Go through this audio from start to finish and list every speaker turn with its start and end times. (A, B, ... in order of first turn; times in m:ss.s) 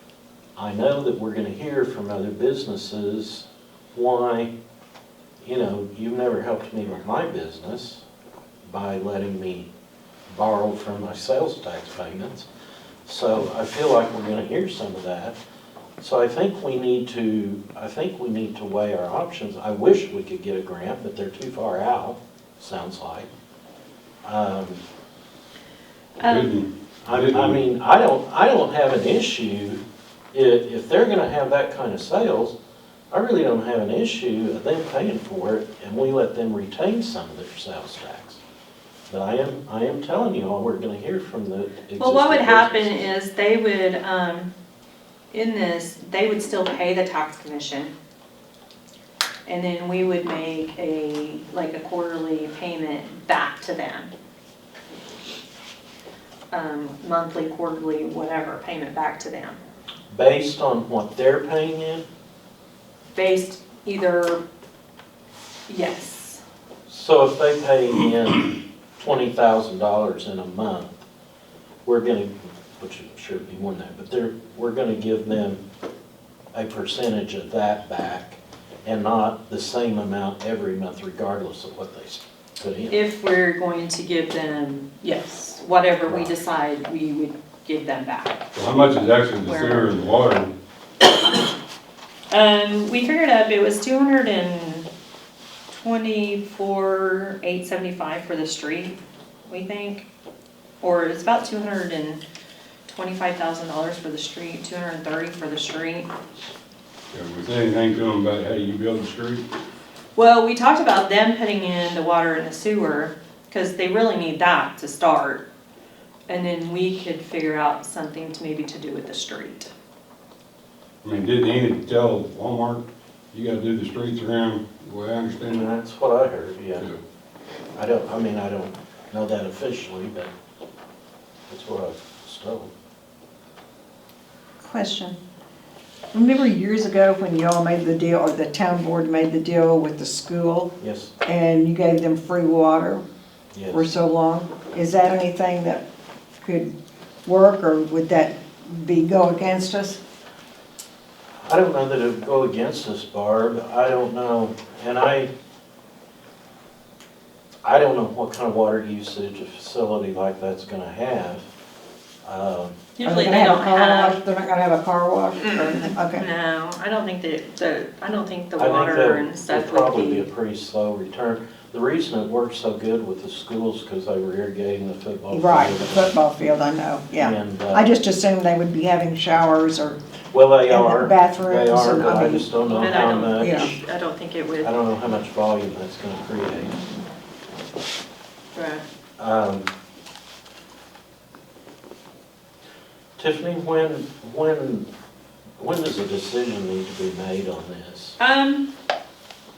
0:00.6-0:04.5 A
0:05.4-0:08.0 A
0:08.7-0:09.7 A
0:10.3-0:12.5 A
0:13.1-0:15.4 A
0:16.0-0:23.3 A
0:24.2-0:24.8 A
0:26.2-0:26.5 B
0:26.2-0:27.6 C
0:27.0-0:29.8 A
0:30.3-0:32.6 A
0:33.1-0:38.4 A
0:39.1-0:43.0 A
0:42.0-0:44.5 B
0:45.3-0:47.9 B
0:49.5-0:54.1 B
0:56.5-0:59.6 B
1:00.1-1:02.1 A
1:03.2-1:04.4 B
1:05.7-1:06.4 B
1:06.9-1:11.0 A
1:11.9-1:15.6 A
1:16.5-1:23.0 A
1:22.9-1:28.5 B
1:28.6-1:30.5 C
1:29.4-1:29.9 B
1:32.3-1:34.9 B
1:35.7-1:40.1 B
1:40.8-1:42.2 B
1:42.9-1:46.1 B
1:47.1-1:49.5 C
1:50.2-1:55.4 B
1:56.3-1:59.7 B
2:01.0-2:05.6 C
2:05.5-2:06.9 A
2:07.8-2:10.3 A
2:11.5-2:12.7 A
2:14.6-2:15.2 D
2:16.1-2:23.0 D
2:20.8-2:21.1 A
2:23.5-2:23.9 A
2:23.7-2:25.8 D
2:26.4-2:26.7 D
2:27.2-2:30.0 D
2:31.5-2:35.3 A
2:37.6-2:41.5 A
2:42.2-2:42.8 A
2:43.0-2:44.2 B
2:43.0-2:46.3 D
2:45.4-2:50.3 B
2:48.6-2:56.1 A
2:55.3-3:00.0 D
2:57.1-2:57.9 A
3:00.3-3:03.8 A
3:00.7-3:02.5 D
3:02.6-3:04.7 B
3:03.4-3:03.7 D
3:04.6-3:06.8 A
3:08.5-3:08.8 B
3:09.2-3:09.7 A
3:13.2-3:14.9 A
3:15.6-3:18.2 A
3:18.2-3:18.7 B